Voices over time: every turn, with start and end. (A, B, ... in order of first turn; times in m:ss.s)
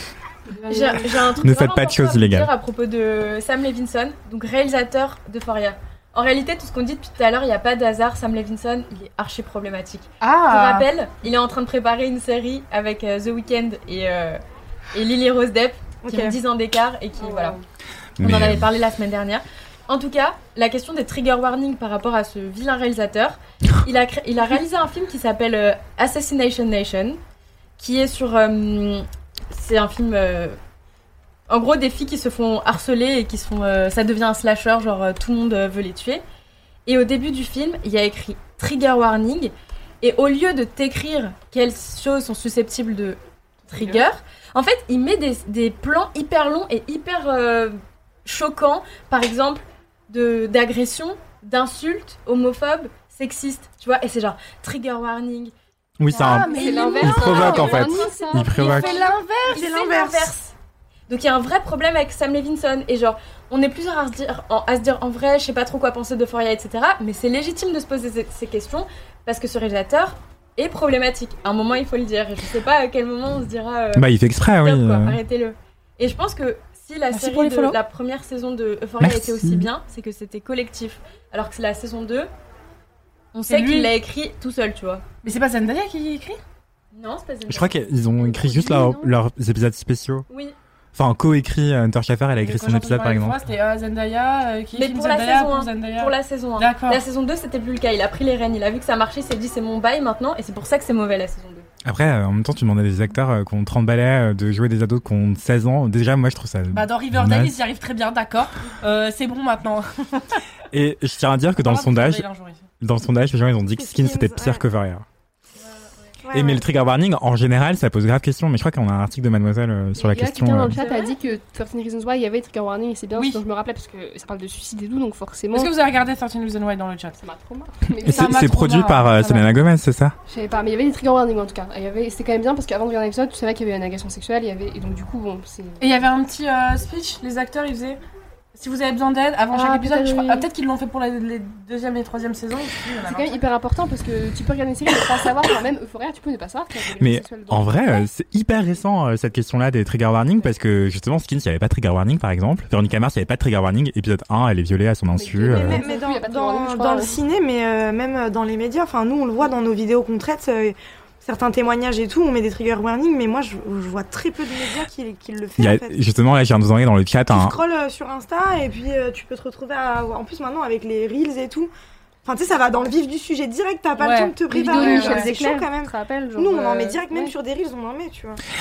0:00.5-0:01.4 A
0:00.7-0:14.4 B
0:01.4-0:02.5 C
0:10.2-0:10.9 D
0:14.9-0:17.6 B
0:16.0-0:16.4 E
0:18.2-0:18.7 C
0:18.2-0:27.2 B
0:27.8-0:30.6 B
0:31.5-0:36.2 B
0:36.9-0:55.5 B
0:43.8-0:44.1 D
0:56.0-0:59.0 C
0:56.1-0:58.0 D
0:56.2-0:58.8 A
0:57.5-1:00.5 B
0:58.6-0:59.6 D
0:58.6-1:00.4 E
1:01.1-1:14.1 B
1:13.9-1:15.2 C
1:14.6-1:22.3 B
1:17.1-1:17.8 D
1:19.0-1:19.7 C
1:23.3-1:25.0 B
1:23.5-1:23.9 D
1:25.2-1:26.4 D
1:26.9-1:27.9 B
1:27.5-1:30.3 C
1:28.2-1:29.2 A
1:30.3-1:30.6 B
1:31.0-1:33.4 C
1:32.4-1:37.0 D
1:34.7-1:41.7 B
1:41.8-1:47.6 C
1:46.7-1:50.4 D
1:50.7-1:52.3 C
1:51.6-1:52.6 D
1:52.8-1:55.0 C
1:53.8-1:54.6 E
1:55.8-1:56.1 B
1:56.2-1:56.6 E
1:56.3-2:00.8 C
2:00.0-2:05.7 A
2:00.8-2:01.1 B
2:03.1-2:03.4 D
2:05.5-2:07.2 D
2:07.2-2:08.6 A
2:08.0-2:09.4 D
2:08.0-2:10.2 C
2:10.3-2:16.0 A
2:15.8-2:18.0 D
2:18.6-2:23.4 D
2:19.5-2:20.5 A
2:23.0-2:28.1 A
2:27.0-2:35.8 C
2:35.1-2:37.2 A
2:35.5-2:46.0 E
2:45.6-2:47.6 C
2:47.3-2:51.7 E
2:52.2-2:58.4 E
2:54.0-2:55.3 D
2:54.5-2:57.3 A